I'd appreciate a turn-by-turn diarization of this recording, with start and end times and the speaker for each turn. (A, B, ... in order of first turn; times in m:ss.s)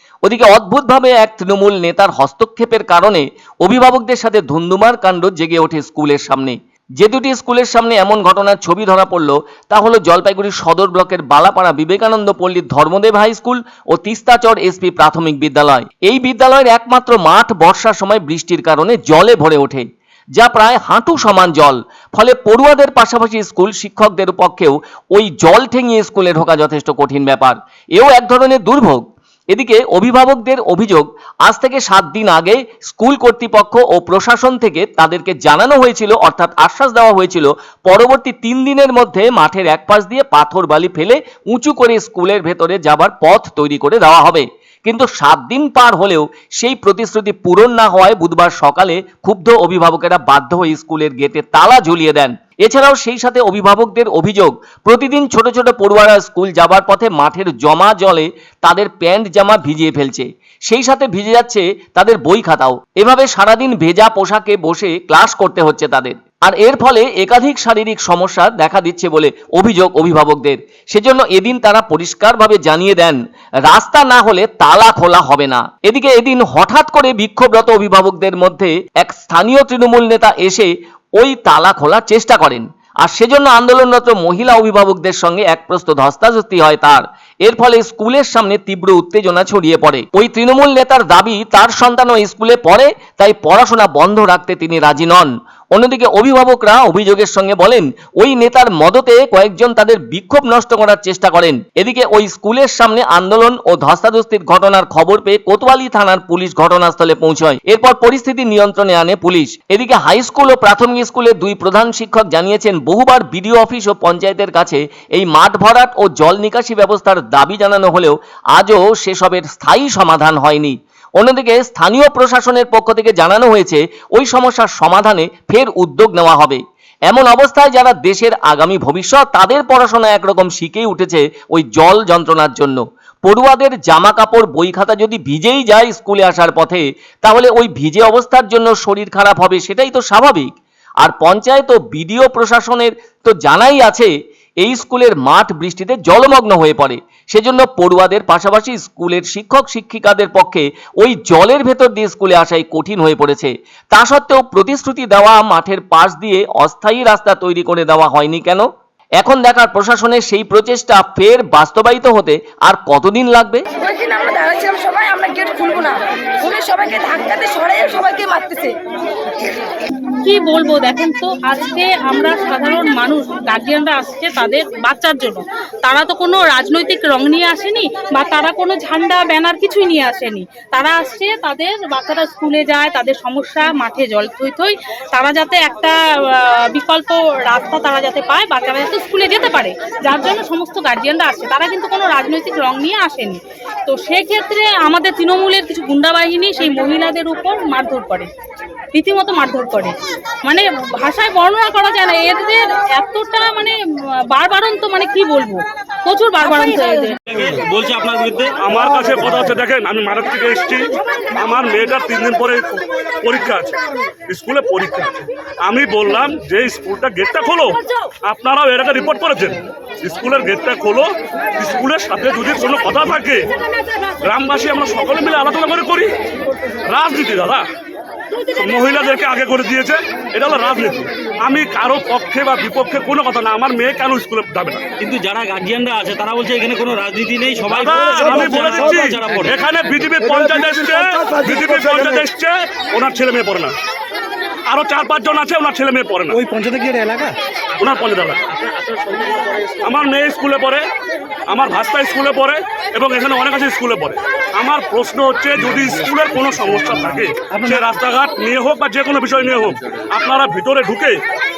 0:00.2-0:19.8 A
0:20.4-2:20.5 A
2:21.0-2:24.1 A
2:24.6-2:38.7 A
2:39.2-2:43.6 A
2:43.8-2:48.8 B
2:50.2-3:18.3 C
3:18.9-3:20.0 C
3:20.5-3:23.8 C
3:24.3-3:27.2 C
3:27.3-3:28.8 D
3:28.6-3:33.8 E
3:34.3-3:43.5 E
3:44.2-3:46.2 E
3:46.9-3:47.6 E
3:48.5-3:54.8 E
3:55.0-3:59.6 D
3:57.7-4:03.7 E
4:04.7-4:06.4 E
4:06.3-4:07.4 D
4:07.8-4:08.4 E
4:08.7-4:09.8 D
4:09.8-4:10.9 E
4:11.5-4:21.2 E